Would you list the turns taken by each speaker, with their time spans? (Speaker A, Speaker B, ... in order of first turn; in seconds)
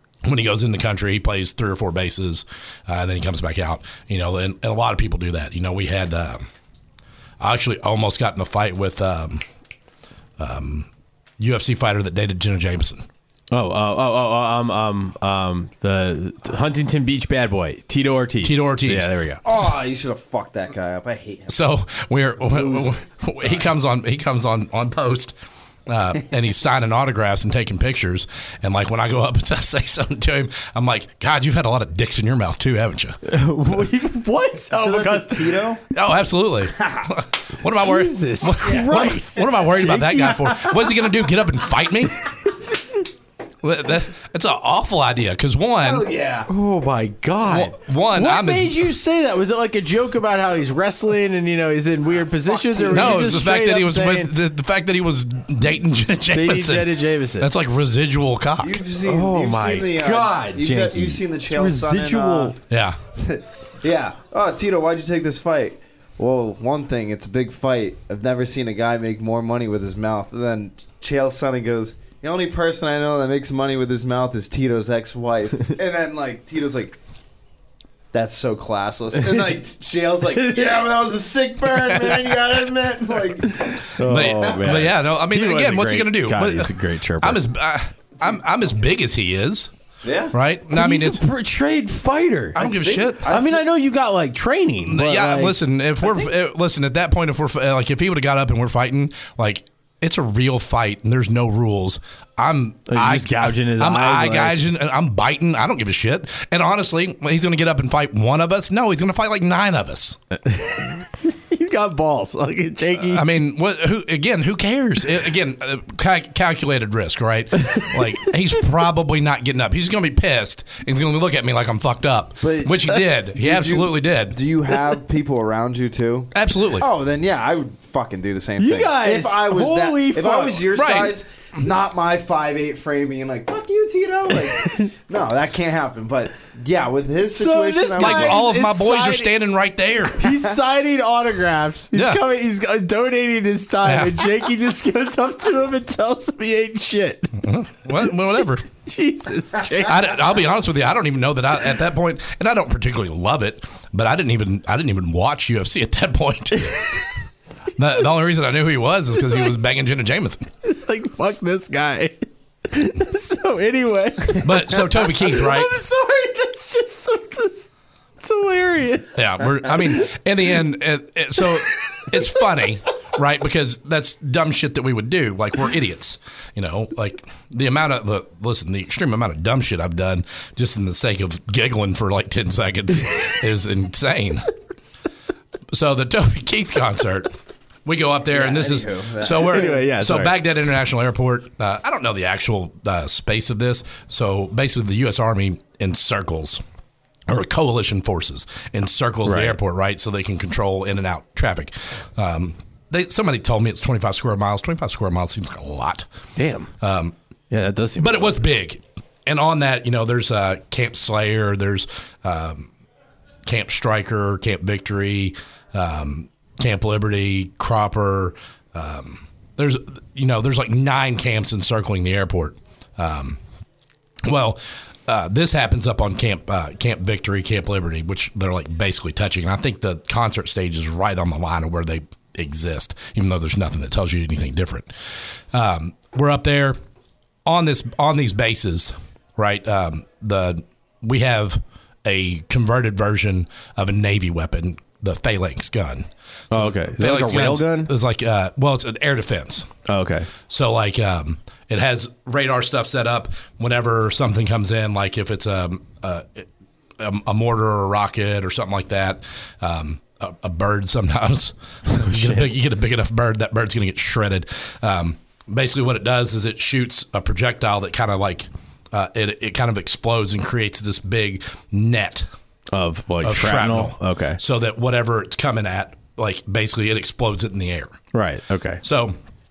Speaker A: 0.2-6.5, 7.4-9.4, 10.4-10.9, 11.4-13.0, 18.4-19.6, 21.5-25.3, 25.9-33.2, 35.9-42.4, 43.6-46.1, 47.4-48.9, 52.9-58.8, 62.7-63.0, 81.7-82.4, 84.0-89.7, 90.3-91.2, 92.5-93.3, 94.8-110.2, 113.0-124.4, 126.3-126.9, 130.7-131.2, 138.0-140.3, 141.9-142.2, 143.8-144.3, 147.4-148.7, 149.8-157.1, 157.8-160.5, 164.4-165.8, 169.1-184.5, 185.7-196.6, 197.3-206.0, 206.8-207.1, 208.0-212.7, 213.4-223.4, 224.2-234.9, 235.5-236.8, 237.4-249.7, 250.5-256.5, 257.0-272.3, 273.2-278.0, 278.8-279.1
Speaker B: 13.5-19.4, 33.2-35.6, 37.7-40.7, 42.4-42.8, 46.5-54.3, 56.3-57.5, 59.0-62.6, 80.4-80.8, 83.6-87.4, 90.7-92.6, 93.2-95.6, 102.9-104.7, 110.4-113.2, 128.6-130.7, 134.6-134.9, 137.3-139.3, 140.2-147.3, 148.7-150.3, 160.6-169.8, 171.9-172.5, 189.4-190.3, 199.2-199.6, 206.3-206.7, 207.5-208.4, 246.5-247.9, 249.8-250.3, 261.9-262.5, 272.7-274.4, 278.1-278.8
Speaker C: 19.4-21.6, 22.4-23.7, 34.7-35.8, 36.8-37.1, 38.6-39.6, 45.8-46.5, 52.4-53.3, 58.6-62.5, 63.2-77.0, 78.1-84.8, 90.0-90.3, 92.6-93.6, 122.4-138.5, 188.2-189.8